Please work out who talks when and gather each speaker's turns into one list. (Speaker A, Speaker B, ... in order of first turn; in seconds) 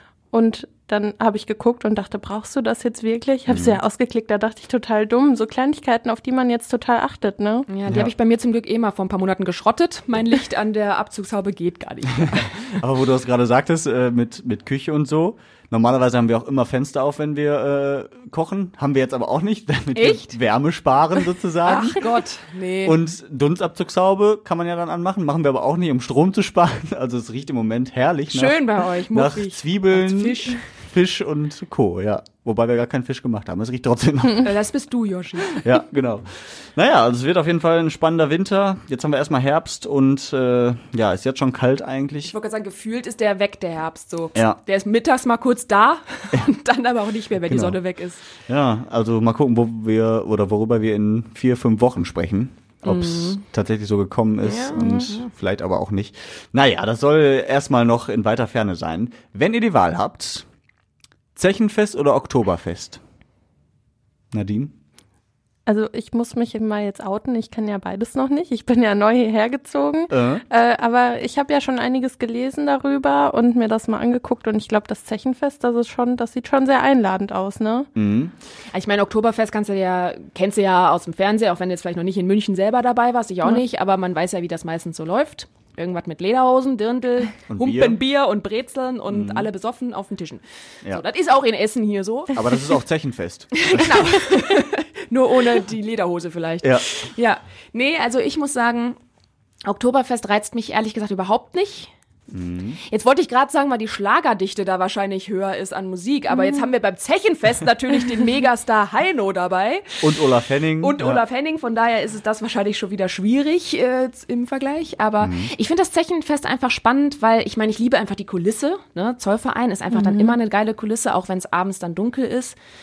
Speaker A: 0.3-7.7, 65.7-77.9, 119.9-120.3
Speaker B: 3.5-3.8, 12.2-22.1, 22.8-34.5, 35.5-42.3, 47.4-47.8, 48.5-60.5, 61.3-63.0, 64.3-64.7, 70.1-70.4, 78.0-78.3, 87.5-88.0, 89.1-89.5, 92.3-94.2, 102.3-102.8, 110.0-111.2, 115.2-115.5
Speaker C: 7.7-12.8, 19.9-20.3, 21.6-23.0, 28.3-30.6, 34.4-35.6, 42.3-48.2, 52.8-53.4, 54.4-55.3, 78.7-92.8, 93.5-99.0, 99.6-101.9, 102.9-110.2, 110.8-122.6